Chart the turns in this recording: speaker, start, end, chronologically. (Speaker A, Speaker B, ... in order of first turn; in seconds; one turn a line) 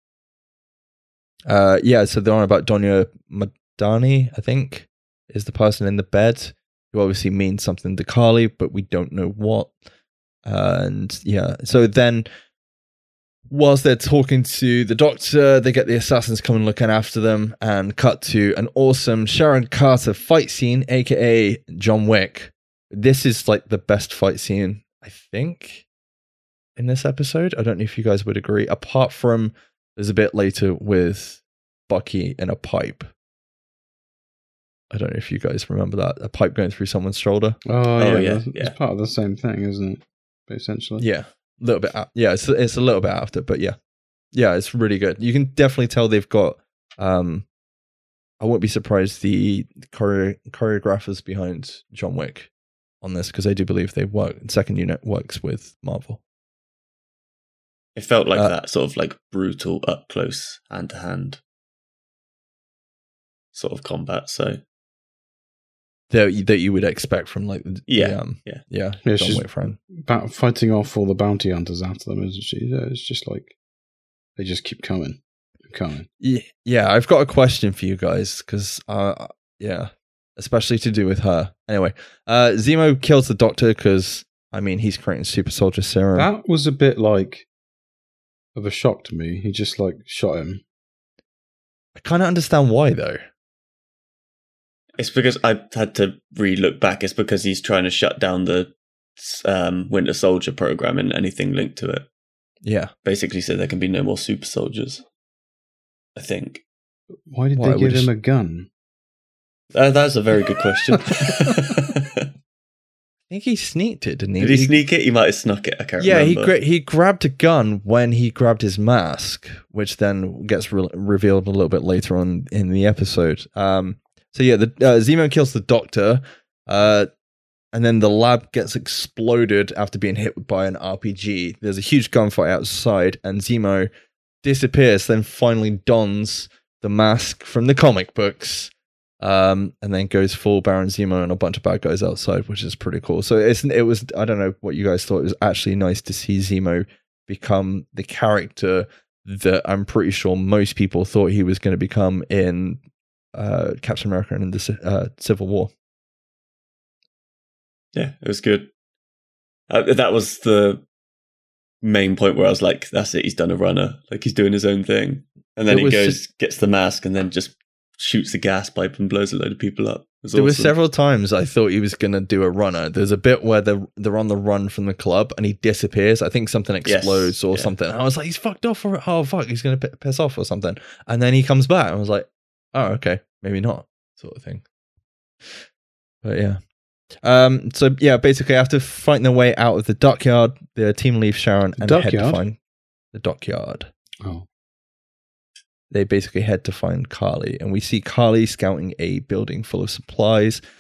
Speaker A: 1.5-9.7
Speaker A: 10.4-12.3
Speaker A: 13.5-25.9
Speaker A: 26.8-33.1
Speaker A: 34.9-37.6
Speaker B: 37.7-41.0
Speaker C: 38.0-38.8
Speaker A: 41.0-43.8
Speaker A: 44.3-47.5
Speaker A: 48.4-52.5
Speaker A: 53.0-56.2
Speaker C: 58.0-61.4
Speaker C: 63.5-64.6
Speaker A: 66.1-69.8
Speaker C: 67.9-68.6
Speaker B: 69.0-73.5
Speaker B: 74.4-76.1
Speaker A: 76.2-86.3
Speaker B: 86.2-87.5
Speaker B: 88.5-90.6
Speaker A: 92.0-93.2
Speaker C: 95.0-102.1
Speaker A: 102.6-102.9
Speaker C: 103.0-105.0
Speaker C: 106.2-106.6
Speaker B: 107.3-108.7
Speaker A: 107.5-108.1
Speaker C: 109.7-112.3
Speaker A: 113.3-114.8
Speaker C: 114.4-116.5
Speaker A: 116.0-127.1
Speaker A: 127.7-133.9
Speaker A: 134.4-152.8
Speaker A: 153.3-155.7
Speaker C: 157.9-158.7
Speaker C: 159.7-160.8
Speaker C: 161.8-170.7
Speaker A: 165.7-166.2
Speaker A: 170.3-184.6
Speaker C: 176.8-177.7
Speaker A: 186.2-186.6
Speaker A: 187.2-192.6
Speaker B: 191.8-192.4
Speaker A: 193.1-193.9
Speaker A: 195.9-200.6